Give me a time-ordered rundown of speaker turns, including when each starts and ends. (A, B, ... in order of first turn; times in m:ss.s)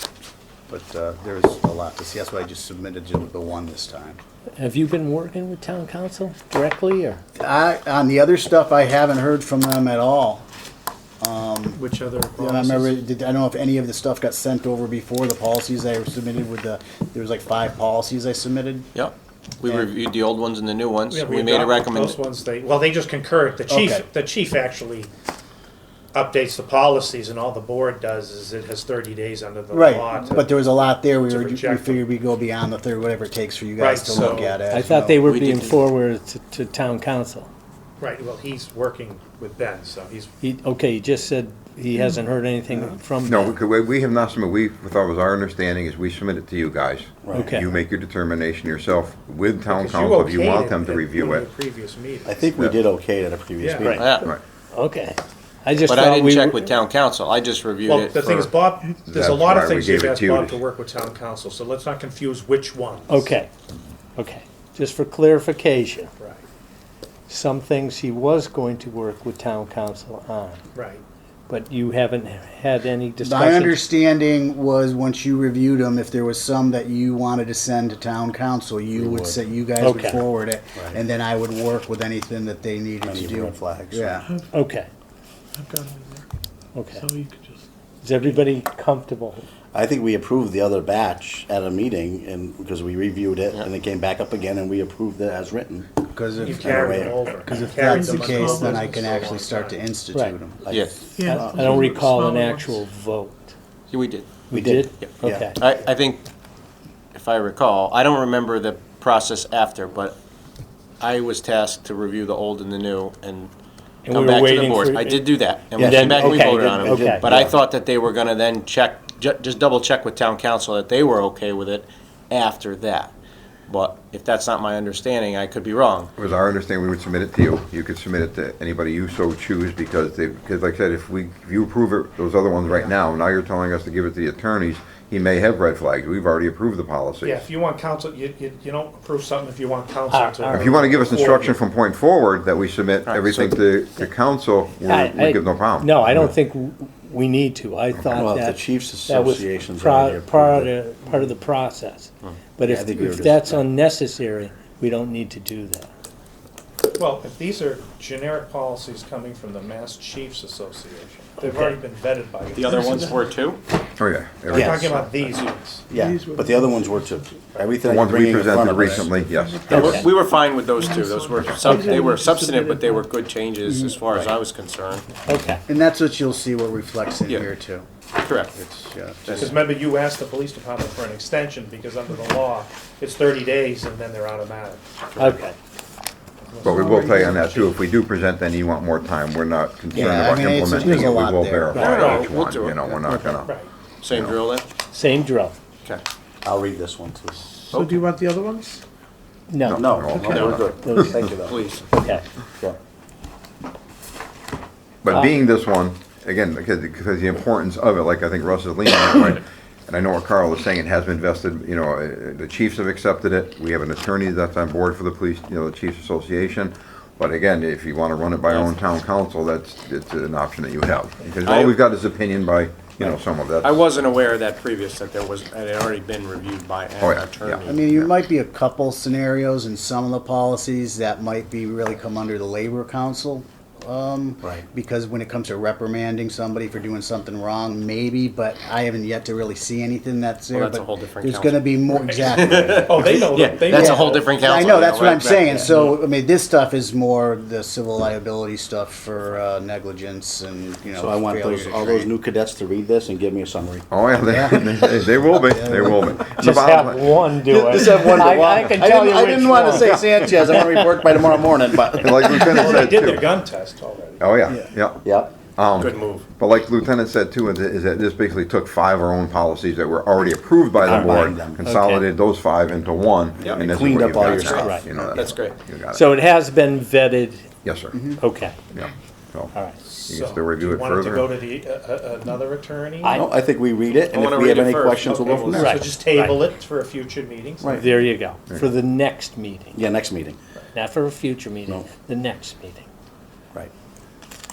0:00.7-0:04.2 A
0:04.6-0:07.2 B
0:07.4-0:10.4 A
0:11.2-0:11.8 A
0:11.7-0:13.0 C
0:12.4-0:18.9 A
0:18.9-0:22.2 D
0:21.1-0:25.1 C
0:23.7-0:24.0 A
0:26.1-0:30.6 C
0:29.7-0:35.2 A
0:31.2-0:32.1 C
0:33.8-0:34.6 C
0:34.7-0:37.5 B
0:35.2-0:35.8 D
0:38.0-0:40.3 C
0:40.4-0:43.6 B
0:43.3-0:51.5 E
0:47.2-0:47.6 F
0:47.3-0:47.7 B
0:49.7-0:52.5 C
0:52.2-0:54.1 F
0:53.6-0:53.9 C
0:53.8-0:56.7 B
0:53.9-0:54.2 D
0:55.9-0:58.5 D
0:57.8-1:03.3 C
0:59.1-1:00.6 E
1:03.1-1:03.5 B
1:04.2-1:06.1 B
1:07.3-1:10.6 B
1:10.8-1:11.0 C
1:11.5-1:13.8 B
1:13.2-1:24.3 A
1:18.9-1:19.4 F
1:19.8-1:20.2 B
1:23.0-1:24.2 F
1:24.5-1:24.9 B
1:25.6-1:26.2 G
1:26.7-1:27.1 B
1:26.9-1:27.6 G
1:28.0-1:29.4 B
1:29.7-1:35.9 F
1:36.1-1:40.6 A
1:36.4-1:39.8 C
1:36.7-1:37.2 F
1:37.4-1:39.2 G
1:40.6-1:42.1 F
1:40.7-1:41.0 D
1:41.2-1:42.8 G
1:41.2-1:43.5 B
1:43.9-1:44.3 D
1:44.5-1:45.6 B
1:44.5-1:45.4 F
1:45.0-1:46.3 D
1:47.1-1:50.2 D
1:51.0-1:53.5 D
1:54.0-1:55.2 B
1:54.1-2:03.2 D
1:55.8-1:57.2 B
1:55.8-1:57.5 F
2:03.7-2:06.1 D
2:06.2-2:17.4 E
2:17.2-2:21.6 C
2:20.1-2:21.4 B
2:20.5-2:26.3 E
2:23.1-2:23.6 D
2:24.8-2:35.9 B
2:28.0-2:28.2 E
2:28.1-2:30.7 F
2:32.6-2:33.6 F
2:37.0-2:42.7 C
2:41.4-2:41.8 B
2:42.5-2:43.6 D
2:42.6-2:43.3 G
2:44.0-2:45.0 E
2:44.5-2:45.9 C
2:44.5-2:44.9 F
2:45.9-2:49.1 F
2:45.9-2:47.4 G
2:47.5-2:47.8 C
2:47.8-2:50.0 E
2:48.7-2:49.0 A
2:48.8-2:53.1 G
2:49.7-2:55.1 D
2:49.7-2:50.0 B
2:55.3-2:55.6 B
2:55.7-2:57.9 A
2:58.2-2:58.6 D
2:58.6-2:59.6 A
2:59.3-2:59.7 D
2:59.4-3:04.9 C
3:05.2-3:05.6 B
3:06.5-3:07.7 C
3:06.6-3:13.5 E
3:09.9-3:11.7 A
3:11.7-3:12.1 B
3:11.7-3:13.3 D
3:13.4-3:13.7 C
3:14.0-3:14.7 D
3:14.1-3:14.4 E
3:14.9-3:15.6 B
3:16.4-3:17.5 F
3:17.6-3:18.8 G
3:19.5-3:21.2 B
3:19.6-3:21.1 E
3:19.7-3:21.7 F
3:20.2-3:20.6 D
3:21.4-3:21.9 D
3:21.9-3:22.2 B
3:25.0-3:43.8 E
3:41.4-3:41.8 D
3:43.0-3:47.8 D
3:47.0-3:48.1 E
3:47.7-4:12.1 A
4:00.5-4:05.9 D
4:02.0-4:04.3 C
4:10.9-4:13.9 F
4:13.9-4:17.2 E
4:14.2-4:16.2 A
4:16.4-4:21.1 B
4:17.5-4:22.1 F
4:21.9-4:23.3 E
4:22.4-4:24.3 C
4:24.2-4:36.1 E
4:25.0-4:25.4 F
4:25.8-4:26.3 D
4:30.8-4:31.6 F
4:31.6-4:32.0 B
4:33.4-4:35.6 D
4:33.6-4:34.7 F
4:34.5-4:34.9 B
4:35.9-4:37.5 B
4:37.6-4:38.0 E
4:37.9-4:38.2 A
4:38.2-4:38.6 B
4:38.7-4:39.5 E
4:39.5-4:39.8 B
4:39.8-4:43.2 C
4:40.1-4:41.4 E
4:43.0-4:43.3 B
4:43.1-4:45.7 F
4:44.1-4:45.7 D
4:45.0-4:48.0 C
4:45.5-4:46.4 B
4:47.6-4:47.9 F
4:47.7-4:49.8 B
4:49.7-4:50.4 F
4:50.7-4:52.9 B